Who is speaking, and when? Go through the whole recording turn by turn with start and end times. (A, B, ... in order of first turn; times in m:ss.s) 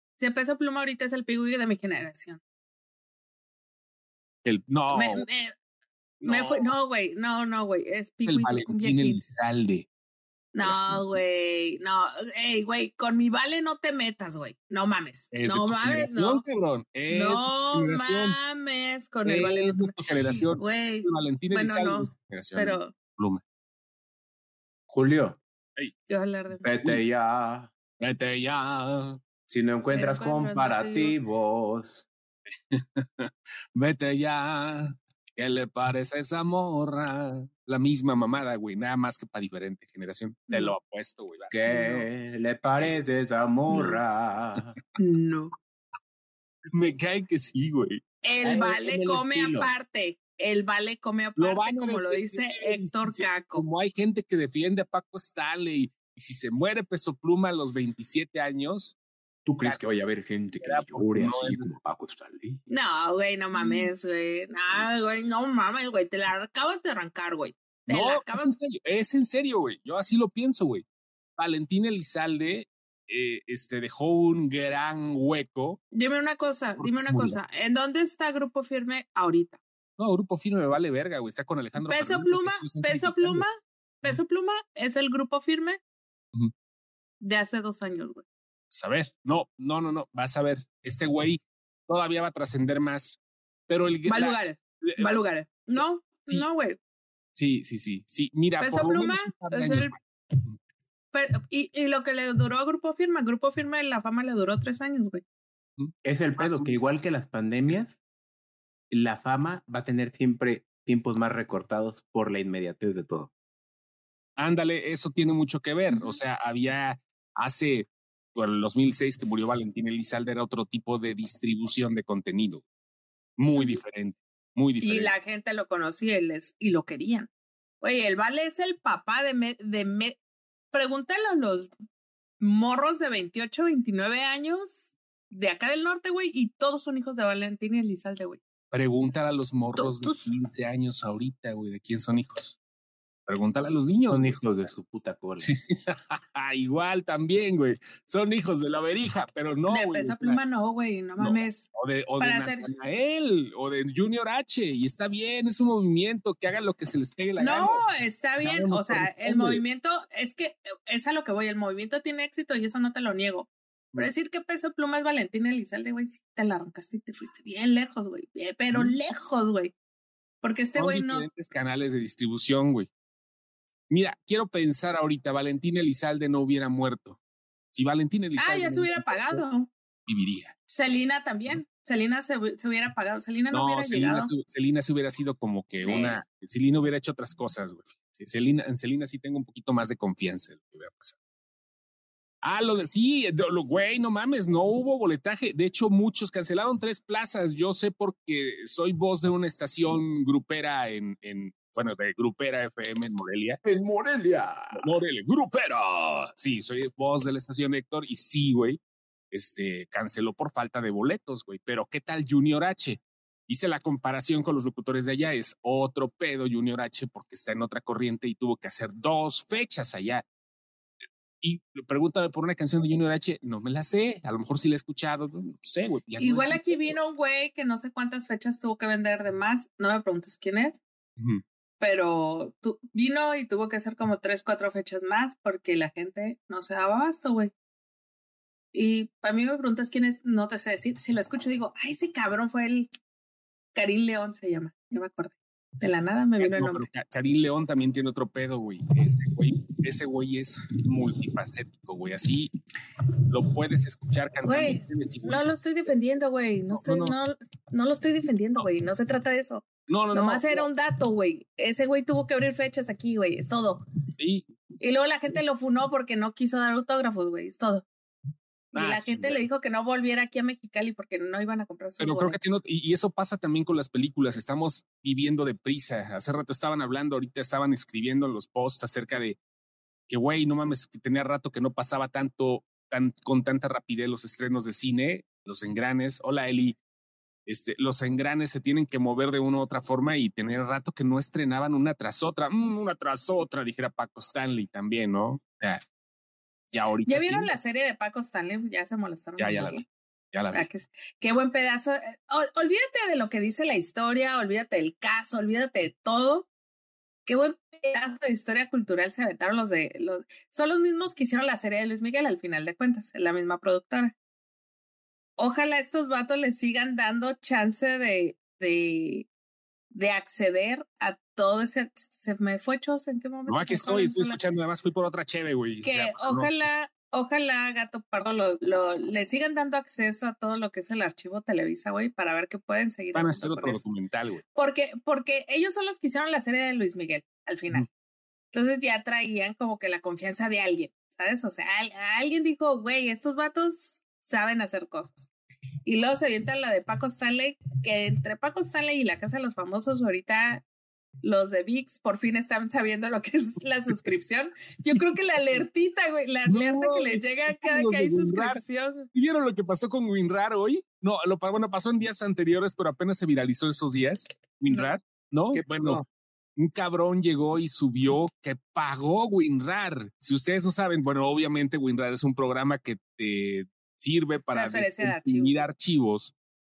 0:00.2-0:02.4 A
0:04.4-0:05.3 B
0:04.9-0:05.5 A
0:06.2-0:09.2 A
0:06.2-0:06.8 B
0:08.3-0:09.9 B
0:10.5-0:16.4 A
0:10.6-0:11.1 B
0:15.3-0:18.4 B
0:17.1-0:22.9 A
0:19.2-0:23.4 B
0:24.9-0:25.4 C
0:26.1-0:26.8 A
0:26.6-0:27.7 C
0:28.0-0:29.2 B
0:29.5-0:32.1 C
0:29.9-0:31.2 A
0:32.7-0:42.0 B
0:40.5-0:40.8 A
0:41.5-0:44.8 C
0:43.7-0:44.0 A
0:45.0-0:45.5 A
0:46.7-0:48.0 B
0:48.2-0:53.7 A
0:48.4-0:49.7 C
0:51.4-0:59.0 B
0:59.5-1:02.6 C
1:00.6-1:01.8 B
1:02.7-1:08.5 A
1:03.6-1:03.9 B
1:07.9-1:10.8 B
1:11.4-1:15.8 B
1:15.9-1:19.6 A
1:16.8-1:17.4 B
1:20.0-1:23.5 B
1:21.8-1:25.8 A
1:27.2-1:28.2 A
1:28.7-1:35.2 B
1:34.1-1:36.8 A
1:35.8-1:36.5 B
1:37.4-1:40.0 B
1:38.6-1:40.0 A
1:41.1-1:45.2 A
1:45.8-1:46.8 B
1:46.0-1:48.0 C
1:48.9-1:53.3 C
1:54.4-2:02.6 B
1:55.9-1:56.2 A
2:03.4-2:05.1 B
2:03.5-2:03.8 A
2:04.8-2:07.3 A
2:07.8-2:10.2 A
2:10.7-2:11.7 A
2:12.4-2:18.4 A
2:18.7-2:22.6 B
2:19.8-2:20.3 A
2:23.3-2:24.4 B
2:24.1-2:25.5 C
2:25.4-2:30.4 B
2:29.7-2:31.7 A
2:31.2-2:37.8 B
2:32.2-2:32.7 A
2:37.4-2:49.7 A
2:38.4-2:39.6 B
2:50.4-2:51.3 A
2:50.8-2:52.9 B
2:53.9-2:57.2 B
2:57.7-2:59.4 B
2:58.4-2:59.7 A
3:00.1-3:00.6 B
3:00.7-3:04.3 A
3:03.5-3:11.2 B
3:05.8-3:06.2 A
3:12.4-3:23.7 B
3:23.8-3:24.6 C
3:24.4-3:40.2 B
3:41.4-3:47.0 B
3:46.2-3:50.8 A
3:51.2-3:51.4 B
3:51.8-3:57.5 A
3:58.7-4:02.9 A
4:03.7-4:06.8 A
4:06.4-4:12.5 B
4:13.3-4:15.5 B
4:14.4-4:23.8 A
4:16.7-4:17.2 B
4:19.9-4:20.7 B
4:24.2-4:24.5 B
4:24.8-4:27.9 A
4:28.7-4:29.4 B
4:28.8-4:32.4 A
4:32.0-4:39.4 B
4:40.1-4:46.8 B
4:47.5-4:55.8 B
4:56.7-4:57.7 B
4:57.1-4:59.8 A
4:59.4-5:00.7 B
5:00.5-5:06.5 A
5:07.3-5:14.2 A
5:15.4-5:19.3 A
5:19.9-5:24.4 A
5:23.5-5:26.5 B
5:25.8-5:33.8 A
5:33.1-5:34.4 B
5:34.6-5:37.9 A
5:38.5-5:45.3 A
5:45.9-5:50.6 A
5:51.2-5:59.1 A
5:56.5-5:58.6 B
5:59.1-6:06.0 B
6:04.7-6:05.0 A
6:05.5-6:06.1 C
6:06.6-6:16.3 B
6:14.5-6:15.7 A